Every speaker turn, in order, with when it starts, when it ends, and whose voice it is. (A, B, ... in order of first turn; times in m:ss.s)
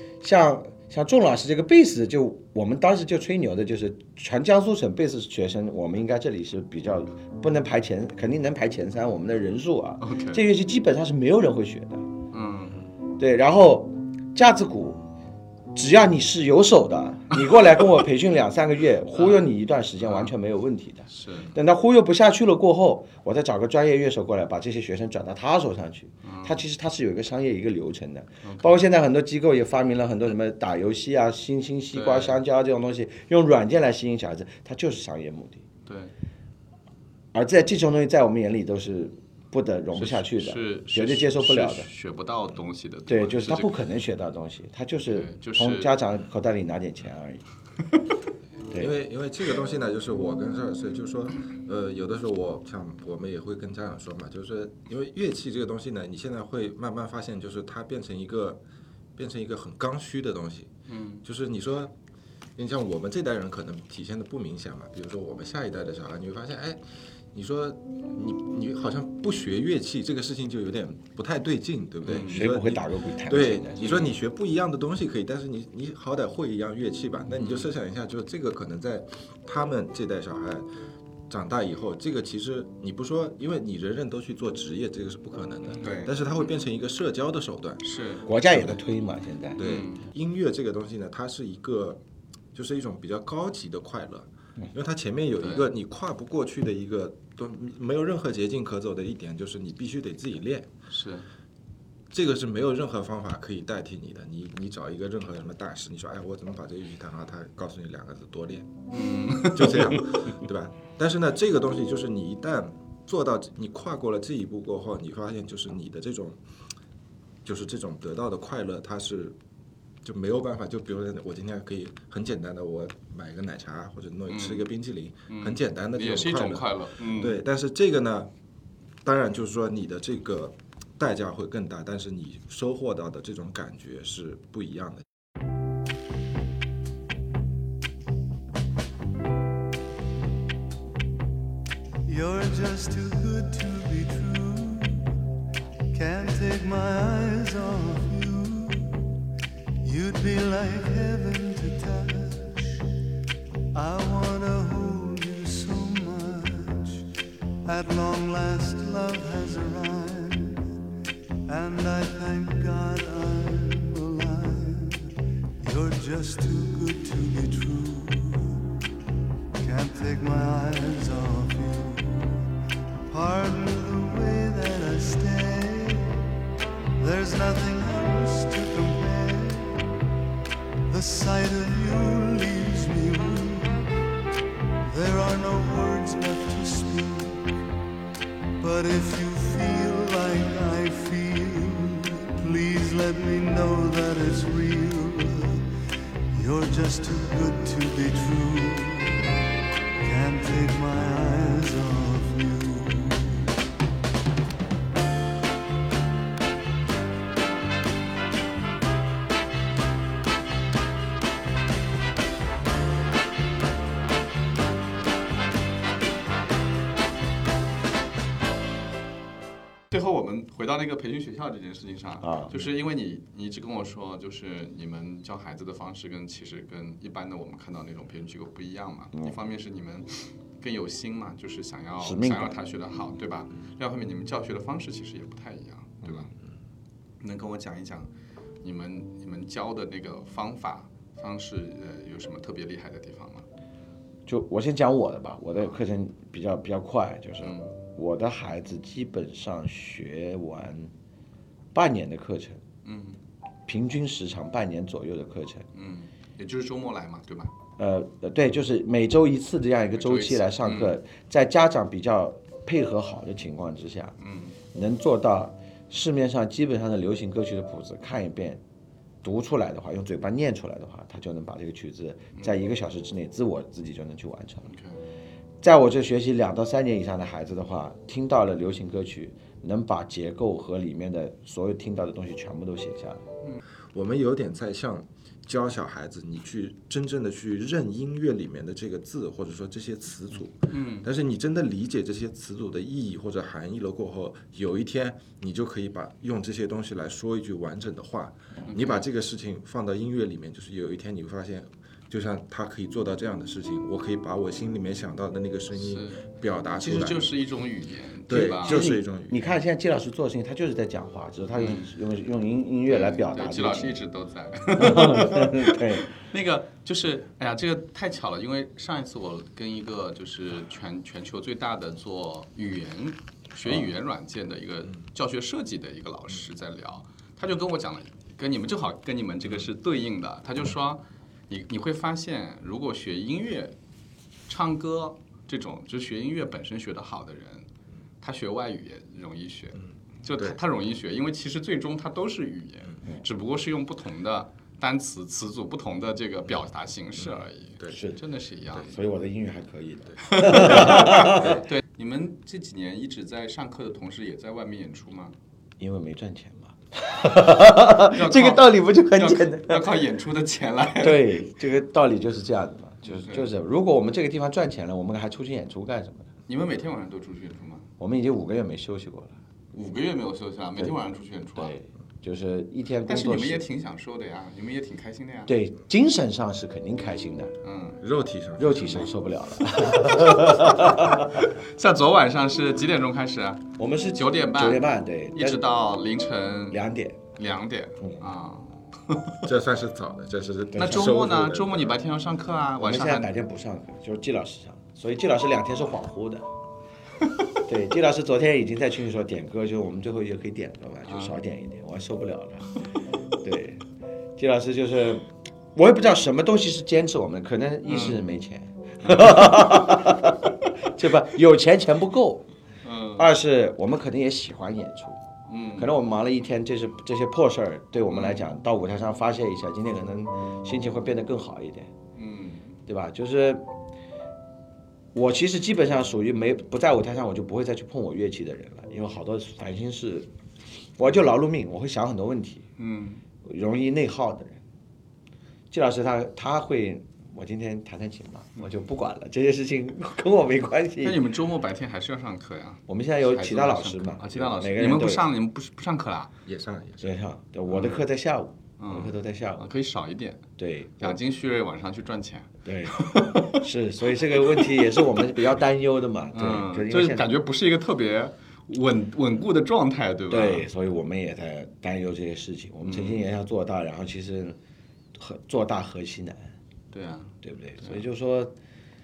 0:00.2-0:12.0 A
0:10.0-0:10.4 B
0:12.3-0:12.8 B
0:13.2-0:15.0 A
0:15.7-0:35.6 A
0:19.1-0:19.4 B
0:20.0-0:20.3 B
0:21.1-0:21.5 B
0:26.2-0:26.6 B
0:28.4-0:28.8 B
0:31.9-0:32.4 B
0:35.8-0:36.1 B
0:37.3-0:41.9 A
0:40.0-0:43.7 B
0:43.1-0:47.4 A
0:45.1-0:45.9 B
0:48.8-0:58.6 C
0:59.2-1:00.7 C
1:00.9-1:01.2 B
1:01.2-1:01.9 C
1:02.6-1:06.8 C
1:07.3-1:20.6 C
1:12.0-1:12.5 B
1:12.2-1:14.2 A
1:17.4-1:17.7 B
1:21.3-1:27.8 C
1:25.8-1:26.2 B
1:27.8-1:28.3 B
1:28.2-1:29.6 A
1:29.6-1:30.0 B
1:29.6-1:32.0 C
1:32.5-1:40.7 C
1:35.4-1:35.7 B
1:40.9-1:41.3 B
1:42.1-1:48.7 C
1:48.9-1:50.2 B
1:49.5-1:56.4 C
1:57.4-1:59.4 C
2:00.0-2:08.3 C
2:04.3-2:04.7 B
2:05.3-2:07.4 B
2:09.0-2:15.0 C
2:22.6-2:24.9 D
2:25.9-2:28.9 D
2:29.9-2:32.5 D
2:33.8-2:37.0 D
2:37.7-2:40.5 D
2:41.5-2:44.9 D
2:45.6-2:48.4 D
2:49.6-2:52.2 D
2:53.1-2:56.0 D
2:57.0-2:59.6 D
3:00.9-3:03.7 D
3:04.9-3:07.3 D
3:08.6-3:15.6 D
3:16.4-3:19.1 D
3:20.0-3:23.3 D
3:39.9-3:56.3 B
3:42.2-3:42.6 A
3:52.0-3:52.5 A
3:56.0-3:56.4 C
3:57.2-3:58.1 B
3:58.6-4:03.4 B
4:04.3-4:10.9 A
4:07.4-4:07.8 B
4:11.7-4:12.6 A
4:12.8-4:13.2 B
4:13.7-4:15.7 A
4:15.7-4:17.5 B
4:17.8-4:24.1 A
4:19.9-4:20.9 B
4:24.2-4:24.6 B
4:24.7-4:28.6 A
4:29.2-4:34.7 A
4:34.7-4:35.0 B
4:35.6-4:43.2 A
4:43.9-5:07.3 C
4:50.7-4:51.1 B
4:58.7-4:59.0 B
5:05.8-5:06.2 B
5:06.8-5:08.9 B
5:08.3-5:09.4 C
5:08.6-5:14.0 A
5:11.5-5:11.9 B
5:12.9-5:33.7 B
5:14.8-5:16.1 A
5:34.5-5:37.6 B
5:38.2-5:49.0 B
5:40.3-5:40.6 C
5:47.2-5:48.0 C
5:47.9-5:48.2 A
5:48.8-5:51.6 A
5:50.3-5:55.3 B
5:55.8-5:59.9 A
5:58.0-6:01.4 B
6:01.0-6:06.3 A
6:03.0-6:03.5 B
6:06.5-6:07.9 B
6:08.0-6:09.4 A
6:09.7-6:11.7 B
6:11.6-6:13.6 A
6:13.1-6:15.5 B
6:15.5-6:17.5 A
6:17.6-6:18.0 B
6:18.0-6:19.1 C
6:18.6-6:21.5 A
6:19.7-6:26.8 B
6:23.8-6:25.6 A
6:26.7-6:27.2 A
6:27.3-6:29.4 B
6:29.4-6:32.0 C
6:30.7-6:33.3 B
6:32.8-6:36.5 A
6:37.6-6:42.7 A
6:41.1-6:41.3 B
6:43.4-6:43.8 A
6:44.4-6:52.5 A
6:47.9-6:48.2 B
6:49.0-6:49.7 B
6:52.8-6:53.3 B
6:53.2-6:55.2 A
6:55.5-6:55.9 B
6:55.8-7:01.9 A
6:58.1-6:58.4 B
7:02.2-7:02.7 B
7:02.9-7:03.7 A
7:05.1-7:10.3 A
7:11.0-7:12.7 A
7:12.8-7:13.2 B
7:13.4-7:14.6 A
7:15.7-7:21.2 A
7:21.0-7:26.3 B
7:22.9-7:25.3 A
7:26.4-7:27.1 C
7:27.0-7:29.7 A
7:27.7-7:28.0 B
7:28.8-7:30.5 B
7:30.6-7:31.2 A
7:31.0-7:33.6 B
7:32.6-7:37.2 A
7:34.2-7:35.0 B
7:36.3-7:40.7 B
7:40.3-7:44.6 A
7:42.8-7:43.2 B
7:45.1-7:46.5 A
7:46.9-7:48.0 B
7:47.4-7:48.5 A